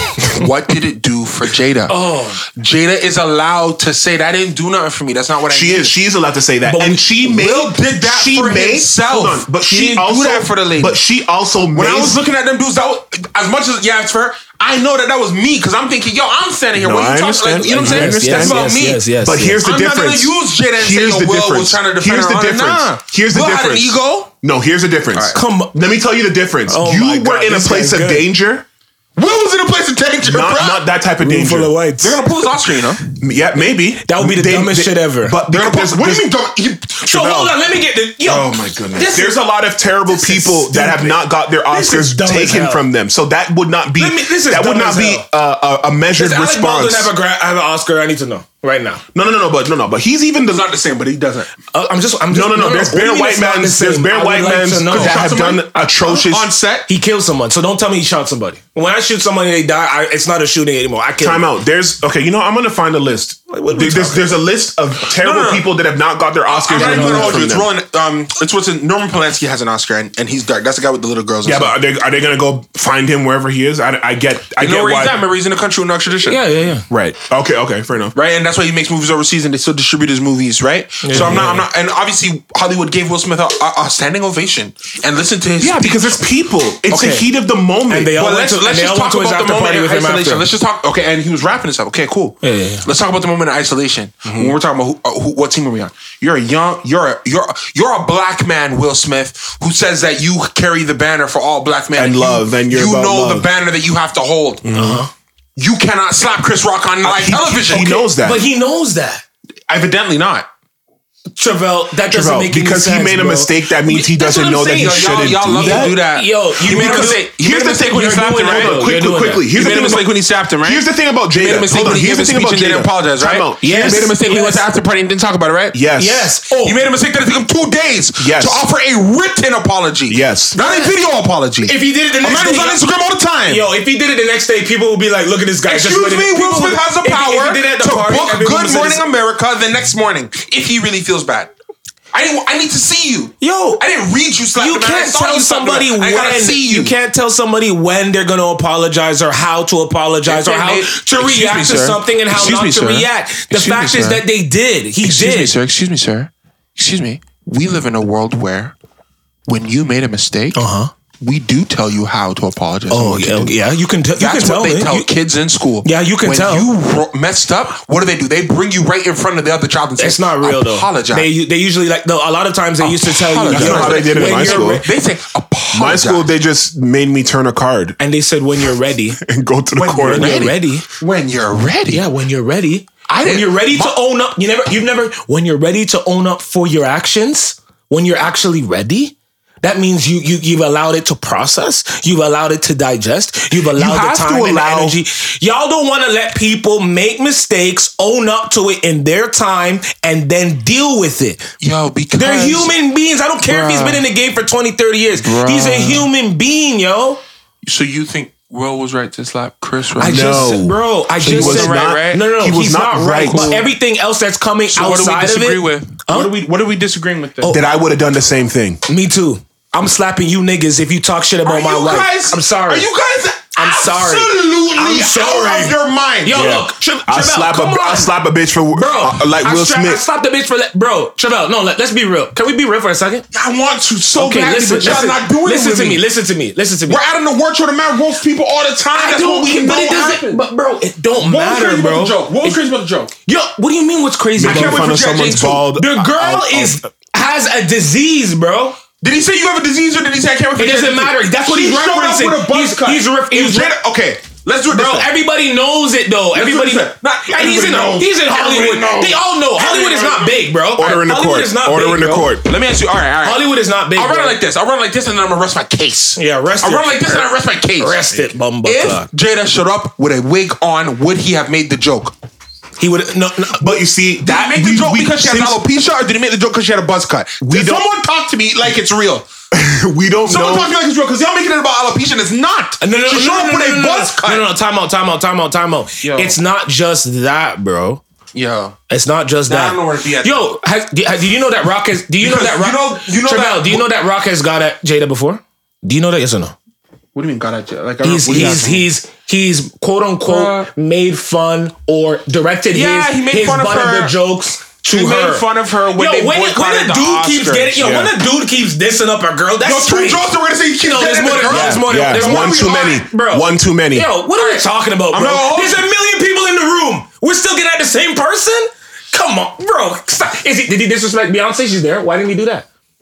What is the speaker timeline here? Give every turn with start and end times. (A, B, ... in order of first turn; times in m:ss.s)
0:00.2-0:06.0 A
0:01.9-0:02.4 B
0:05.5-0:12.2 C
0:06.6-0:07.0 B
0:07.2-0:11.0 A
0:11.7-0:19.0 A
0:16.8-0:28.7 C
0:17.8-0:19.6 B
0:19.6-0:24.3 A
0:25.1-0:25.4 A
0:25.3-0:25.8 B
0:26.7-0:28.3 B
0:29.2-0:30.9 A
0:30.2-0:31.8 C
0:31.2-0:32.2 B
0:32.0-0:33.0 A
0:33.2-0:36.3 C
0:34.0-0:35.4 B
0:35.5-0:37.5 A
0:37.0-0:39.4 B
0:38.3-0:47.1 C
0:40.1-0:42.8 B
0:44.0-0:45.3 B
0:46.2-0:49.0 B
0:49.1-0:50.7 C
0:50.5-0:51.5 A
0:51.7-0:55.3 B
0:52.3-0:56.5 C
0:54.8-0:56.9 A
0:56.9-1:01.5 B
1:01.2-1:07.7 C
1:03.5-1:04.4 B
1:05.1-1:05.7 A
1:06.5-1:11.8 A
1:06.7-1:07.5 B
1:11.4-1:15.3 C
1:14.6-1:16.5 A
1:16.2-1:16.9 B
1:16.9-1:18.2 C
1:18.2-1:26.2 A
1:21.0-1:21.6 B
1:25.6-1:28.2 C
1:26.9-1:27.3 A
1:27.9-1:30.5 B
1:28.2-1:44.7 A
1:32.4-1:32.9 B
1:34.2-1:34.5 C
1:42.0-1:43.5 C
1:44.6-1:45.1 C
1:44.7-1:45.1 B
1:45.6-1:48.1 A
1:47.0-1:48.4 C
1:48.1-1:49.2 B
1:49.7-1:50.5 A
1:51.4-1:54.7 B
1:52.1-1:56.0 C
1:54.1-1:58.9 A
1:55.6-1:59.5 B
1:56.6-2:00.1 C
1:59.5-2:05.8 A
2:00.6-2:04.0 C
2:03.6-2:04.6 B
2:05.7-2:06.3 C
2:06.0-2:06.8 B
2:06.5-2:13.6 A
2:08.2-2:08.6 C
2:10.1-2:10.6 C
2:10.6-2:10.9 B
2:11.6-2:12.8 B
2:13.5-2:19.0 B
2:15.7-2:21.5 A
2:22.1-2:27.0 A
2:23.4-2:23.8 B
2:24.6-2:35.6 B
2:30.3-2:34.2 A
2:35.0-2:38.7 A
2:39.5-2:40.6 A
2:40.6-2:40.9 B
2:41.2-2:43.6 A
2:42.9-2:45.1 B
2:44.2-2:51.3 A
2:45.8-2:46.7 B
2:50.0-2:54.9 B
2:52.8-2:56.3 A
2:53.5-2:54.8 C
2:55.7-2:58.0 C
2:58.0-2:59.2 B
2:59.2-3:00.5 C
2:59.8-3:02.0 A
3:00.0-3:00.9 B
3:01.9-3:21.5 B
3:03.1-3:04.0 A
3:13.7-3:15.0 C
3:21.6-3:22.7 A
3:22.2-3:27.2 B
3:23.5-3:24.0 A
3:25.2-3:26.1 A
3:27.6-3:30.5 A
3:30.0-3:36.3 B
3:30.0-3:33.6 C
3:31.2-3:32.3 A
3:33.2-3:33.6 A
3:34.7-3:37.6 A
3:37.5-3:38.8 C
3:38.9-3:42.9 B
3:41.4-3:46.6 A
3:43.6-3:48.2 B
3:46.3-3:50.0 C
3:48.7-3:53.2 B
3:53.3-3:56.0 A
3:54.2-3:57.0 B
3:56.9-4:00.4 A
3:58.9-4:02.6 B
4:01.2-4:03.1 A
4:03.3-4:04.9 B
4:04.4-4:06.8 C
4:04.4-4:05.7 A
4:05.8-4:08.8 B
4:09.0-4:15.1 A
4:10.6-4:13.7 B
4:14.7-4:22.4 B
4:16.3-4:20.5 A
4:20.8-4:22.5 C
4:22.4-4:28.1 A
4:23.2-4:24.4 B
4:26.2-4:27.3 B
4:27.8-4:29.1 B
4:28.6-4:32.2 A
4:32.8-4:33.8 B
4:33.6-4:35.6 C
4:34.2-4:39.3 A
4:37.4-4:37.9 C
4:39.5-4:40.7 C
4:40.3-4:44.5 A
4:42.8-4:48.0 B
4:46.0-4:46.4 A
4:48.3-4:48.8 A
4:48.9-4:56.6 B
4:49.5-4:50.5 A
4:52.2-4:53.9 A
4:57.2-4:58.9 A
4:58.0-5:10.3 B
5:00.3-5:00.7 A
5:02.7-5:04.2 A
5:04.9-5:07.8 A
5:07.8-5:08.1 C
5:09.6-5:13.0 A
5:10.8-5:22.7 B
5:11.5-5:14.1 C
5:14.4-5:15.8 A